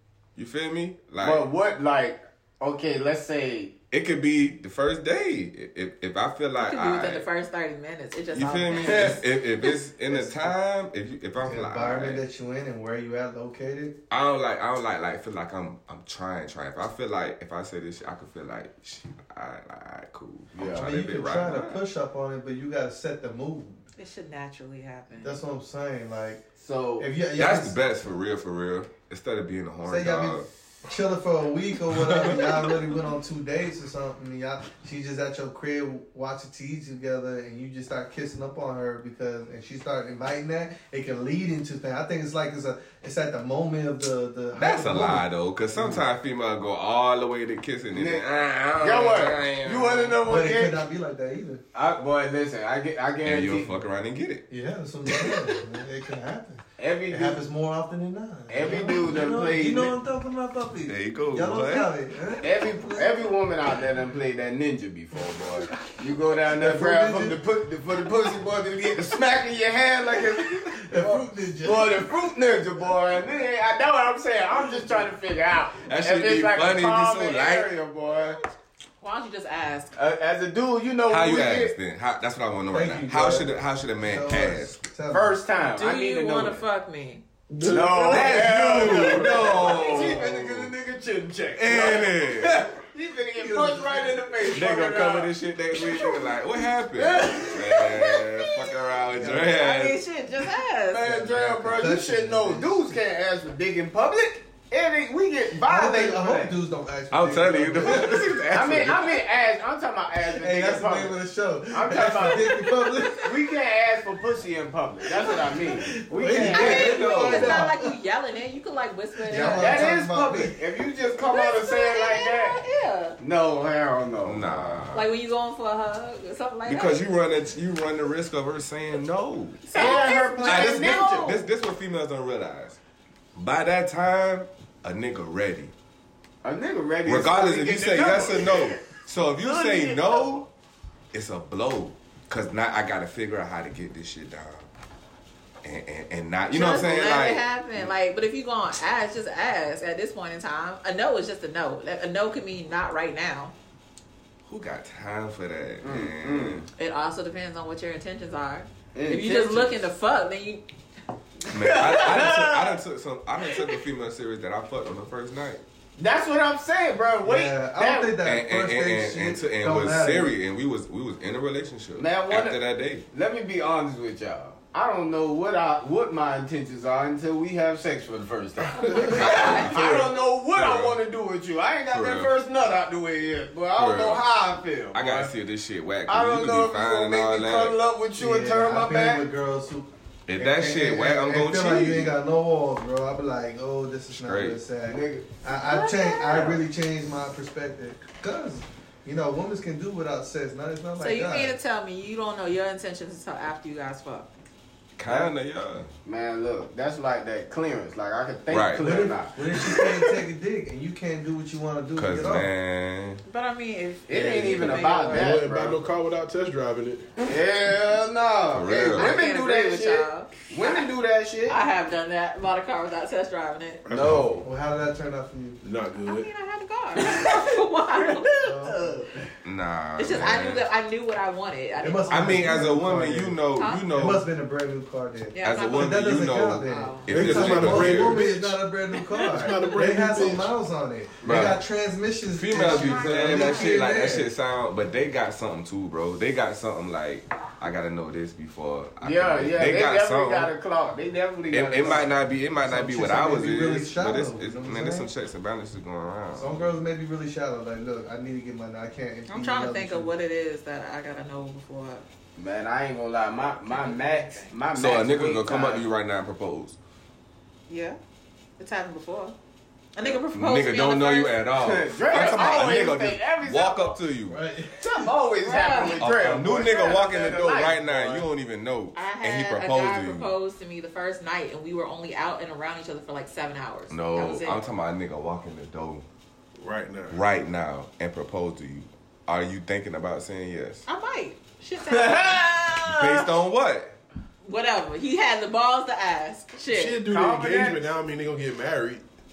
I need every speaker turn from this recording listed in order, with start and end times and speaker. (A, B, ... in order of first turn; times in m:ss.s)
0:00.4-0:01.4 A
0:01.2-0:03.8 B
0:03.9-0:07.3 A
0:06.6-0:09.2 C
0:08.3-0:12.2 A
0:08.9-0:09.2 B
0:10.1-0:10.6 D
0:11.4-0:14.0 D
0:14.1-0:21.8 A
0:20.6-0:20.9 B
0:20.7-0:23.9 D
0:24.0-0:25.4 C
0:25.2-0:26.4 D
0:26.6-0:27.1 B
0:27.0-0:27.8 D
0:27.4-0:30.5 A
0:29.8-0:46.0 D
0:32.0-0:32.6 A
0:44.6-0:50.2 A
0:47.9-0:48.3 B
0:48.8-0:50.8 B
0:50.2-0:51.6 D
0:51.7-0:53.8 B
0:53.2-0:54.5 A
0:54.5-1:03.3 D
0:55.1-0:55.6 A
0:56.8-0:57.4 B
0:58.5-0:59.9 B
1:00.9-1:01.9 A
1:02.4-1:18.4 B
1:06.5-1:07.4 D
1:10.7-1:12.1 D
1:15.8-1:17.7 A
1:19.0-1:19.9 C
1:20.0-1:21.7 B
1:21.1-1:24.8 A
1:22.7-1:25.4 D
1:25.1-1:26.6 B
1:25.6-1:27.2 C
1:27.5-1:29.8 E
1:27.7-1:35.3 B
1:27.9-1:30.7 A
1:31.6-1:32.7 A
1:33.3-1:34.3 D
1:34.4-1:40.0 A
1:37.0-1:38.1 B
1:37.5-1:37.8 C
1:39.1-1:39.5 D
1:39.3-1:41.1 C
1:40.9-1:46.6 B
1:41.0-1:43.0 D
1:45.6-1:48.4 D
1:47.1-1:49.2 A
1:48.5-1:51.2 B
1:50.2-1:53.6 D
1:51.7-1:52.6 B
1:53.2-1:57.5 B
1:55.2-1:58.0 D
1:56.4-1:59.9 C
1:56.6-1:57.6 A
1:59.2-2:00.6 D
1:59.4-2:02.6 B
2:01.2-2:03.2 C
2:03.2-2:04.9 B
2:04.2-2:05.1 A
2:04.9-2:07.0 C
2:06.7-2:12.8 A
2:09.7-2:11.4 C
2:09.7-2:11.4 B
2:13.4-2:15.7 A
2:16.4-2:18.9 B
2:17.0-2:20.5 A
2:19.4-2:20.2 B
2:21.1-2:24.7 A
2:25.6-2:27.9 A
2:26.5-2:33.5 C
2:34.4-2:36.7 A
2:35.8-2:36.7 B
2:36.8-2:40.6 C
2:38.9-2:39.8 B
2:41.5-2:42.8 B
2:41.5-2:45.6 A
2:46.0-2:48.2 B
2:47.2-2:50.4 D
2:48.2-2:53.1 A
2:52.0-2:52.6 B
2:53.1-3:05.3 B
2:58.8-2:59.7 C
2:59.1-3:01.0 A
3:01.9-3:02.3 A
3:03.8-3:04.2 A
3:04.9-3:07.8 A
3:06.1-3:09.2 B
3:08.2-3:21.6 D
3:10.3-3:12.2 A
3:14.1-3:14.6 A
3:14.9-3:15.3 B
3:15.6-3:16.6 C
3:21.0-3:24.3 C
3:25.0-3:25.9 A
3:26.0-3:30.1 B
3:28.5-3:28.9 A
3:28.8-3:32.5 D
3:32.0-3:33.2 A
3:33.3-3:35.3 C
3:34.1-3:35.8 B
3:34.2-3:37.1 E
3:37.2-3:41.6 B
3:38.5-3:39.2 A
3:38.8-3:40.9 C
3:41.5-3:43.8 C
3:43.8-3:44.5 E
3:43.9-3:44.5 B
3:44.4-3:45.6 D
3:45.6-3:46.3 E
3:46.0-3:48.7 C
3:47.0-3:49.1 B
3:48.4-3:49.0 D
3:49.4-3:50.7 A
3:50.0-3:52.6 C
3:51.8-3:53.4 D
3:52.1-3:54.2 A
3:53.6-3:53.8 C
3:53.9-4:04.3 D
3:55.3-3:56.1 C
3:55.4-3:58.3 A
3:56.6-3:57.1 C
3:57.1-3:58.6 E
3:58.9-3:59.8 C
3:59.2-4:00.5 E
4:01.2-4:01.5 B
4:01.2-4:01.6 A
4:02.3-4:10.5 A
4:02.6-4:03.8 C
4:09.0-4:12.1 B
4:11.5-4:16.7 A
4:12.6-4:15.1 D
4:16.4-4:20.1 D
4:19.3-4:22.0 C
4:22.4-4:25.9 B
4:23.7-4:24.5 C
4:24.7-4:26.8 A
4:27.7-4:28.0 C
4:28.6-4:29.4 C
4:30.0-4:31.4 C
4:30.0-4:34.4 A
4:31.5-4:34.0 B
4:32.1-4:32.8 C
4:34.3-4:35.1 D
4:34.8-4:38.2 B
4:35.4-4:36.0 C
4:36.0-4:40.3 A
4:39.0-4:44.6 C
4:43.9-4:46.0 A
4:46.6-4:47.2 E
4:47.1-4:50.8 A
4:50.9-4:52.5 C
4:51.8-4:53.3 B
4:52.8-4:54.0 A
4:54.4-4:57.0 C
4:56.7-4:59.0 E
4:57.1-4:57.9 B